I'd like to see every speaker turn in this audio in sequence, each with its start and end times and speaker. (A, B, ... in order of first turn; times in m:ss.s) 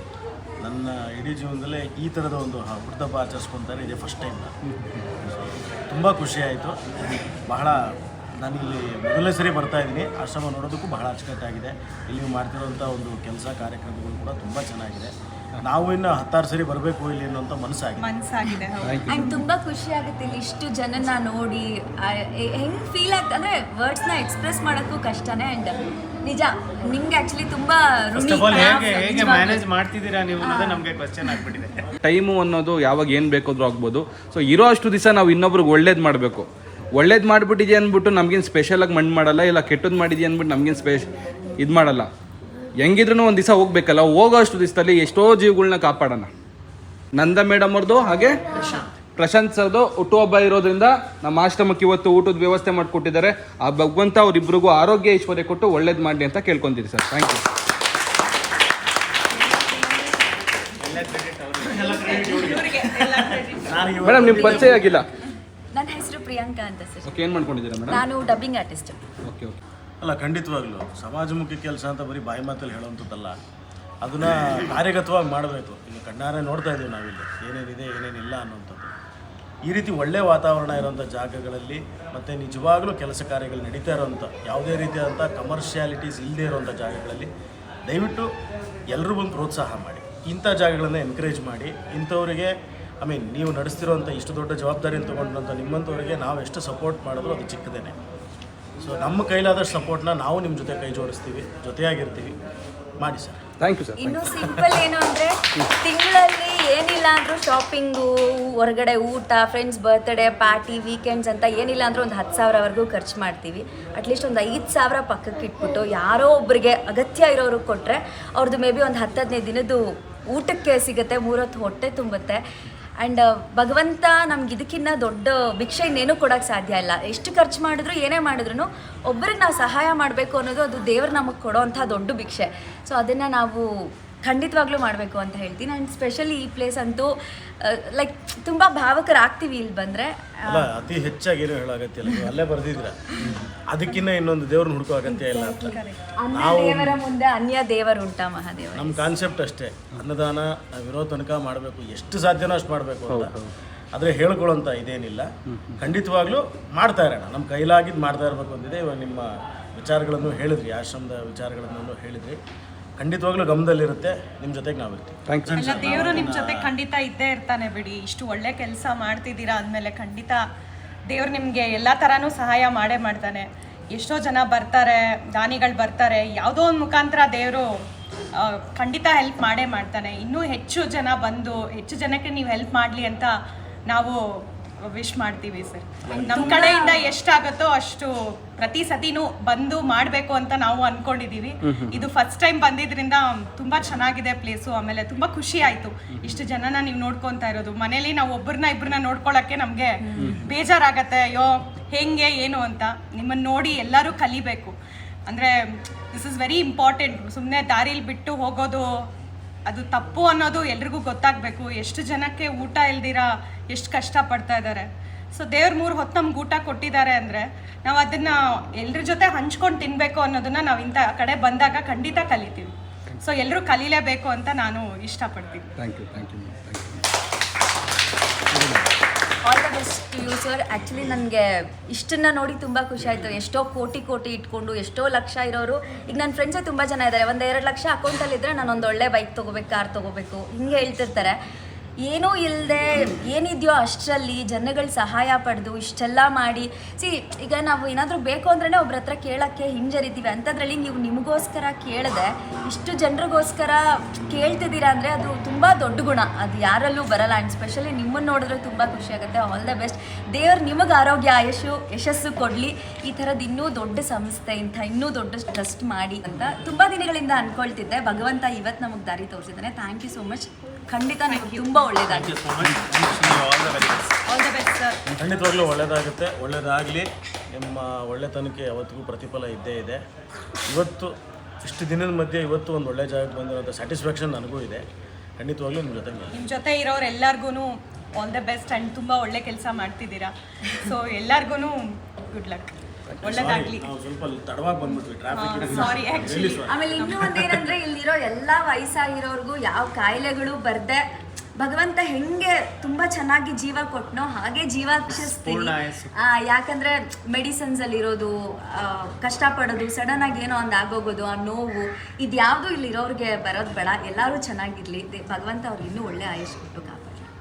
0:00.6-0:04.5 A
0:04.8-0:05.1 B
0:05.2-0:07.9 A
0:08.4-0:18.1 A
0:18.0-0:19.2 C
0:18.8-0:19.2 B
0:19.0-0:29.7 D
0:28.2-0:31.9 E
0:30.4-0:30.8 D
0:32.0-0:42.1 B
0:42.8-0:46.3 B
0:47.1-0:48.4 B
0:49.1-0:57.4 B
1:00.8-1:02.8 E
1:01.8-1:03.9 C
1:03.6-1:05.0 A
1:04.0-1:05.1 B
1:04.2-1:04.8 D
1:05.7-1:07.2 D
1:07.0-1:08.0 B
1:07.9-1:09.0 D
1:09.2-1:09.6 B
1:10.0-1:13.4 A
1:14.0-1:18.9 A
1:19.7-1:27.3 A
1:27.9-1:28.3 A
1:28.9-1:38.0 A
1:38.8-1:42.4 A
1:43.0-1:43.4 A
1:43.6-1:44.4 B
1:44.0-2:02.4 D
2:03.0-2:13.7 D
2:14.2-2:17.1 D
2:17.6-2:20.7 D
2:20.5-2:23.2 A
2:23.7-2:25.8 A
2:25.1-2:29.1 D
2:25.6-2:26.0 C
2:26.3-2:27.0 A
2:28.8-2:33.4 A
2:33.1-2:33.5 B
2:33.9-2:42.4 A
2:35.5-2:35.9 B
2:43.0-2:46.7 A
2:45.3-2:46.1 B
2:45.6-2:50.4 C
2:51.1-2:57.7 C
2:58.4-3:03.3 C
3:03.9-3:24.8 C
3:06.1-3:06.6 A
3:06.1-3:07.1 D
3:11.6-3:12.1 B
3:20.0-3:20.5 D
3:20.2-3:20.4 B
3:25.3-3:29.1 C
3:29.7-3:45.7 C
3:45.8-3:47.0 B
3:48.5-3:48.9 B
3:49.4-4:01.4 D
4:02.0-4:32.6 D
4:31.3-4:31.9 C
4:32.1-4:34.1 E
4:34.3-4:35.0 C
4:35.1-4:40.0 A
4:40.7-4:44.8 A
4:45.4-4:46.4 A
4:46.3-4:53.9 C
4:53.2-4:56.8 A
4:55.3-4:57.4 C
4:56.6-5:01.0 D
5:01.6-5:17.3 D
5:05.1-5:06.1 E